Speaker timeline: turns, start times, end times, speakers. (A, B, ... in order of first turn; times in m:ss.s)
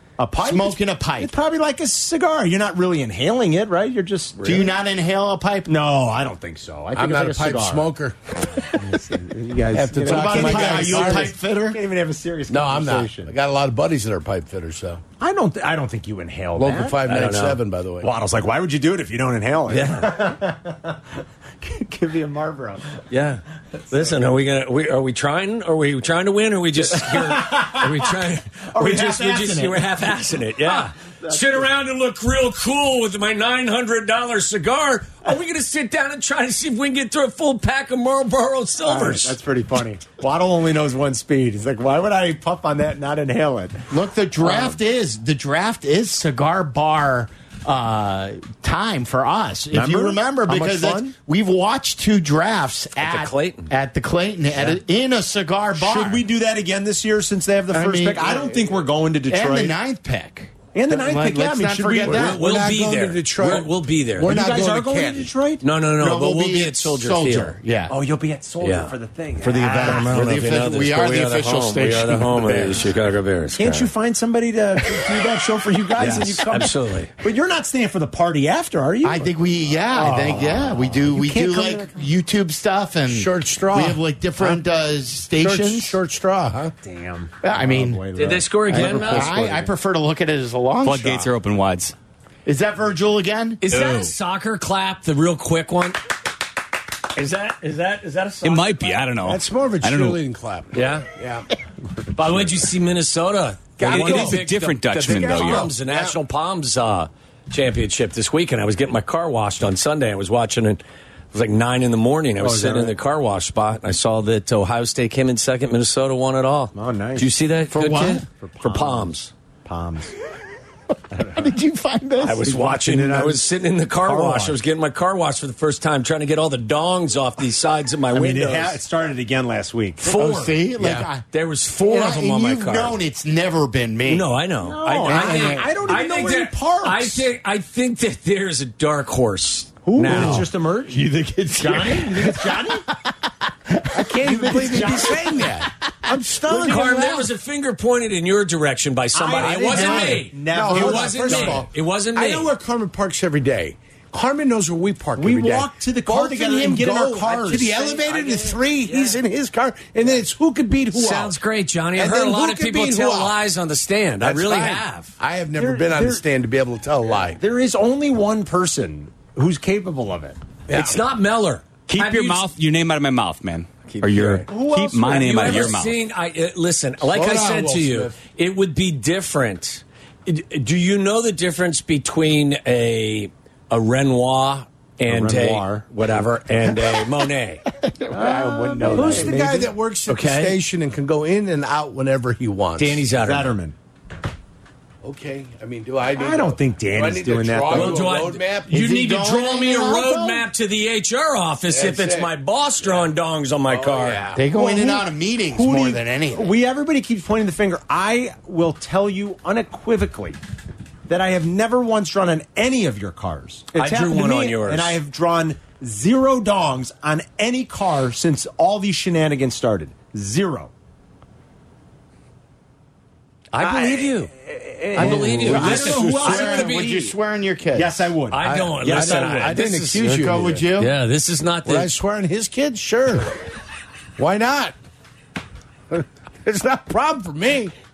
0:00.2-0:04.7 A
0:00.4-0:01.3 B
0:04.4-0:05.7 B
0:05.7-0:07.9 A
0:06.9-0:08.2 C
0:08.7-0:13.3 A
0:09.7-0:11.4 C
0:10.0-0:11.8 B
0:12.5-0:15.0 C
0:15.2-0:17.0 A
0:16.6-0:18.1 C
0:17.0-0:17.6 D
0:18.0-0:21.0 A
0:19.7-0:20.3 D
0:21.6-0:23.0 A
0:23.1-0:39.4 D
0:26.9-0:28.2 A
0:28.7-0:29.9 A
0:30.6-0:31.7 A
0:38.8-0:43.8 A
0:43.9-0:56.2 B
0:49.7-0:51.1 A
0:53.0-0:53.7 D
0:55.8-0:59.7 A
0:57.7-0:58.7 B
0:59.3-1:02.4 B
1:00.7-1:02.4 A
1:02.0-1:05.3 C
1:02.2-1:04.4 D
1:04.2-1:05.6 A
1:05.6-1:07.6 D
1:06.0-1:07.9 B
1:07.9-1:10.3 A
1:08.6-1:08.9 D
1:09.4-1:12.8 B
1:09.7-1:13.9 D
1:13.5-1:19.3 A
1:14.9-1:15.2 B
1:16.0-1:17.1 D
1:19.0-1:26.0 B
1:19.9-1:21.9 A
1:23.1-1:24.6 C
1:25.4-1:26.7 C
1:26.8-1:29.7 A
1:27.4-1:28.1 B
1:28.2-1:29.4 D
1:28.7-1:31.3 B
1:30.8-1:31.9 E
1:32.4-1:33.6 B
1:33.6-1:36.0 D
1:33.7-1:34.1 E
1:37.1-1:38.9 D
1:38.4-1:40.2 E
1:39.2-1:41.5 C
1:40.7-1:41.1 D
1:42.1-1:59.3 D
1:43.8-1:44.5 C
1:43.8-1:45.7 E
1:45.1-1:46.2 C
1:52.4-1:52.9 A
1:56.7-1:57.3 A
1:57.7-1:58.2 B
1:58.3-2:00.1 A
2:01.1-2:01.5 A
2:01.3-2:02.5 B
2:02.2-2:08.8 D
2:02.4-2:04.6 A
2:08.1-2:10.2 A
2:10.0-2:11.3 B
2:10.0-2:10.7 D
2:10.8-2:11.1 C
2:11.3-2:13.0 D
2:11.8-2:14.3 B
2:14.1-2:20.4 D
2:14.6-2:17.3 A
2:15.1-2:15.8 B
2:19.8-2:21.0 A
2:20.0-2:22.9 B
2:21.6-2:22.8 A
2:23.7-2:27.2 B
2:24.0-2:25.5 A
2:24.1-2:27.2 C
2:26.5-2:26.9 A
2:26.6-2:32.5 D
2:29.1-2:31.7 A
2:29.4-2:41.4 C
2:35.2-2:38.5 A
2:38.2-2:39.1 D
2:40.9-2:45.1 D
2:42.0-2:43.4 C
2:44.2-2:47.4 C
2:45.6-2:46.2 A
2:47.3-2:50.4 A
2:50.7-2:51.0 C
2:50.7-2:52.5 D
2:51.9-2:56.0 E
2:53.8-2:54.5 D
2:54.5-2:55.8 A
2:55.0-3:07.6 D
2:57.0-2:58.2 C
3:05.0-3:05.9 A
3:07.7-3:09.4 B
3:08.1-3:09.7 A
3:08.7-3:13.0 C
3:10.1-3:10.6 D
3:12.8-3:13.5 D
3:13.2-3:13.7 A
3:15.0-3:19.0 C
3:16.2-3:18.2 A
3:17.7-3:24.2 D
3:18.7-3:20.4 B
3:21.7-3:23.1 C
3:23.7-3:24.5 C
3:24.3-3:26.5 B
3:24.6-3:30.4 A
3:31.1-3:40.7 A
3:33.7-3:35.0 D
3:43.5-3:44.3 D
3:43.6-3:47.0 A
3:45.0-3:47.1 D
3:45.0-3:48.0 B
3:45.0-3:46.8 C
3:47.7-3:49.6 A
3:48.3-3:51.9 D
3:48.4-3:50.6 C
3:49.9-3:50.9 B
3:51.6-3:53.3 C
3:54.2-3:54.7 C
3:56.4-3:57.7 C